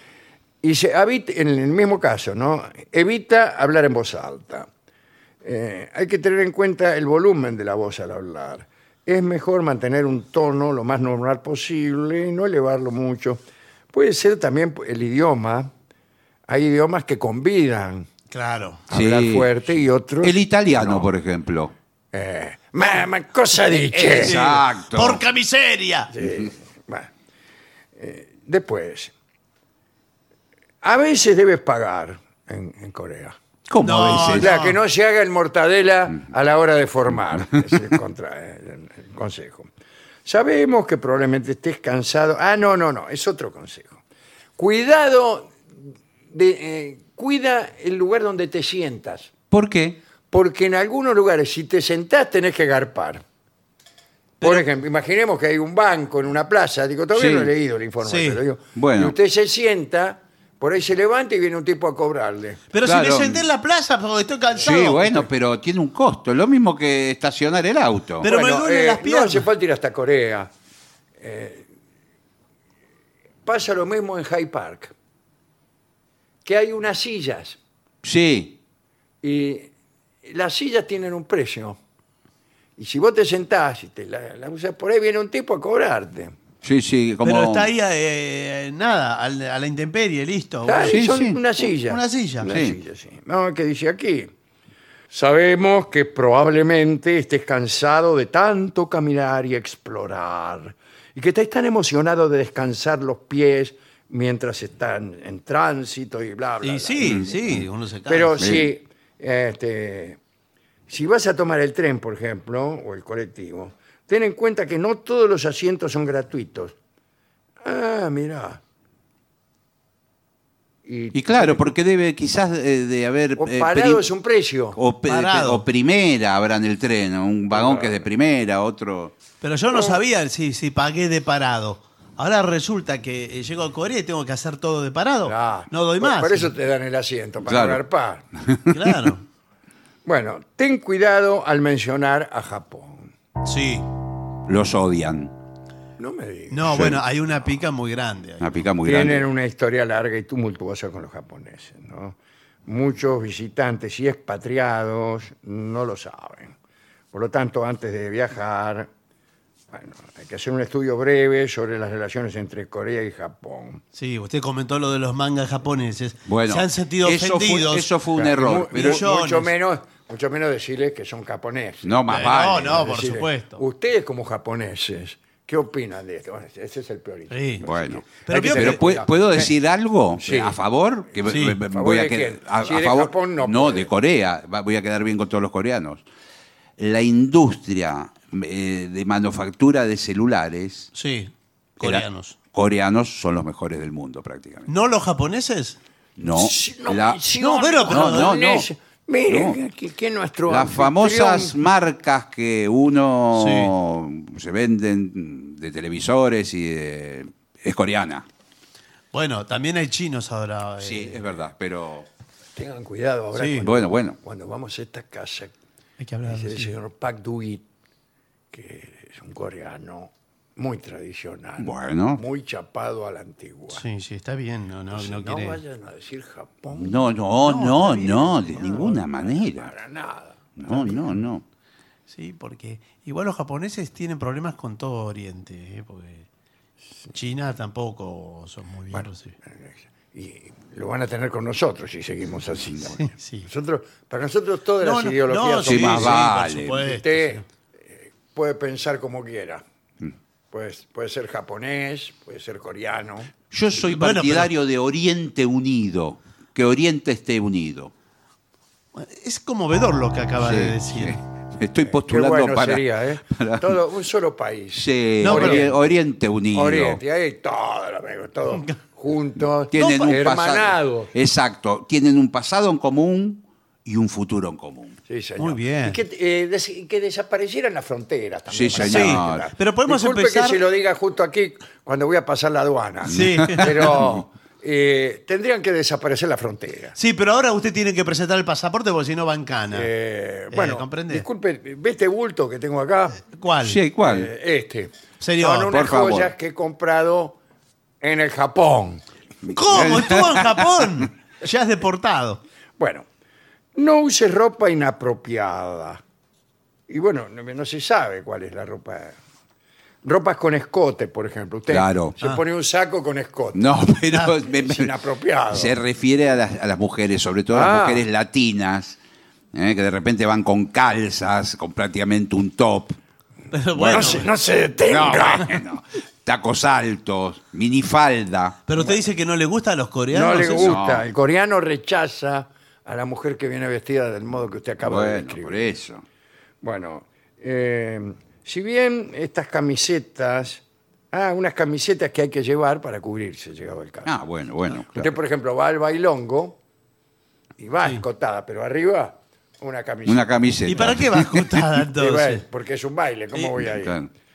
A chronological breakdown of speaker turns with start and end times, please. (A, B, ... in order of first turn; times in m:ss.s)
0:00.6-0:04.7 A
0:05.4-0:13.4 A
0:13.9-0:15.7 A
0:16.5-0:18.1 A
0:18.3-0:18.8 B
0:18.9-0:21.1 A
0:18.9-0:19.5 C
0:20.2-0:21.7 C
0:22.1-0:24.4 A
0:24.0-0:26.1 B
0:24.0-0:25.2 C
0:26.1-0:27.1 A
0:28.0-0:29.1 A
0:30.8-0:33.4 A
0:33.7-0:34.5 C
0:33.8-0:34.8 B
0:34.2-0:39.7 A
0:40.3-0:44.0 A
0:44.6-0:45.6 A
0:46.3-0:49.3 A
0:49.5-0:50.0 C
0:50.3-0:53.2 A
0:54.4-1:02.6 A
0:57.1-0:57.5 C
0:58.0-0:58.4 B
0:58.8-0:59.2 C
1:02.7-1:05.3 B
1:02.8-1:03.4 C
1:04.6-1:08.3 C
1:08.2-1:09.5 B
1:08.2-1:10.5 A
1:11.2-1:11.7 A
1:13.4-1:14.9 A
1:16.4-1:17.6 A
1:18.0-1:18.6 C
1:19.2-1:19.7 A
1:20.2-1:21.8 A
1:22.8-1:26.3 A
1:26.6-1:27.7 C
1:27.2-1:31.1 B
1:30.7-1:34.3 A
1:30.9-1:31.4 C
1:31.8-1:32.5 B
1:32.5-1:32.8 C
1:35.1-1:47.4 A
1:46.6-1:48.4 B
1:47.0-1:47.6 C
1:48.1-1:50.2 A
1:48.4-1:48.7 C
1:50.9-1:56.8 A
1:57.6-1:58.6 A
2:00.9-2:01.7 A
2:01.1-2:04.0 C
2:03.4-2:04.8 A
2:04.8-2:09.2 C
2:05.0-2:05.6 B
2:07.5-2:08.0 A
2:09.4-2:16.5 B
2:15.2-2:18.2 A
2:17.4-2:17.8 C
2:18.4-2:19.1 C
2:18.7-2:19.2 B
2:20.0-2:23.1 A
2:23.4-2:23.9 B
2:24.5-2:25.3 C
2:26.0-2:27.0 A
2:26.5-2:28.5 B
2:26.7-2:27.0 C
2:28.4-2:29.3 C
2:28.8-2:32.2 A
2:32.7-2:36.6 A
2:37.1-2:38.9 A
2:39.7-2:43.8 A
2:43.9-2:47.9 B
2:46.3-2:49.0 C
2:48.2-2:51.9 A
2:48.7-2:49.5 B
2:51.8-2:52.9 C
2:52.1-2:53.6 B
2:52.6-2:59.5 A
2:57.3-2:57.6 B
2:57.6-3:06.0 C
2:58.3-2:58.9 B
3:00.2-3:00.6 A
3:01.3-3:01.6 B
3:01.3-3:03.9 A
3:06.8-3:10.9 C
3:10.9-3:12.4 B
3:11.8-3:14.7 C
3:14.7-3:15.8 B
3:16.2-3:17.2 C
3:16.3-3:21.6 A
3:17.4-3:18.4 B
3:17.9-3:18.7 C
3:19.3-3:19.6 C
3:20.5-3:28.3 C
3:23.3-3:23.7 B
3:29.1-3:31.2 B
3:30.8-3:32.1 C
3:32.6-3:35.5 A
3:33.3-3:33.6 B
3:33.6-3:34.2 C
3:36.0-3:36.7 B
3:36.3-3:37.6 A
3:38.5-3:43.8 A
3:41.6-3:42.2 C
3:43.7-3:45.6 B
3:44.9-3:47.0 A
3:46.7-3:49.7 C
3:47.4-3:48.9 B
3:48.0-3:51.0 A
3:50.6-3:51.4 C
3:52.1-3:56.3 B
3:57.1-3:59.4 B
3:58.9-4:09.6 A
4:02.9-4:03.5 B
4:04.8-4:07.4 B
4:05.7-4:06.8 C
4:10.5-4:13.3 A
4:13.5-4:17.9 C
4:13.8-4:14.5 B
4:19.0-4:21.2 B
4:20.4-4:23.8 C
4:21.9-4:26.0 A
4:24.7-4:27.0 C
4:25.2-4:25.7 B
4:26.5-4:31.1 A
4:29.7-4:35.0 C
4:35.1-4:47.0 A
4:35.4-4:36.0 B
4:38.5-4:39.5 C
4:38.8-4:40.6 B
4:43.1-4:44.0 B
4:43.1-4:44.1 C
4:47.0-4:49.9 B
4:49.7-4:53.3 A
4:50.5-4:51.2 B
4:53.3-4:53.8 B
4:53.6-4:54.3 C
4:54.0-4:57.4 A
4:55.2-4:55.8 B
4:55.7-4:56.3 C
4:58.0-4:59.0 A
4:59.4-5:00.6 C
4:59.5-5:02.4 B
5:02.8-5:03.0 A
5:03.8-5:06.0 A
5:06.9-5:09.2 A
5:10.0-5:13.7 A
5:11.7-5:12.2 C
5:13.6-5:14.9 C
5:14.1-5:14.4 B
5:14.4-5:15.8 A
5:15.5-5:19.0 C
5:17.5-5:18.1 A
5:19.5-5:23.0 C
5:23.5-5:24.3 B
5:23.8-5:24.2 C
5:23.9-5:25.6 A
5:24.9-5:28.6 C
5:28.7-5:30.8 B
5:30.1-5:35.8 A
5:30.6-5:31.0 C
5:34.8-5:36.0 C
5:36.6-5:44.1 A
5:44.1-5:45.1 C
5:44.9-5:46.6 A
5:47.6-5:50.3 A
5:50.1-5:51.4 C
5:50.7-5:52.4 B
5:52.0-5:54.0 A
5:53.4-5:54.1 C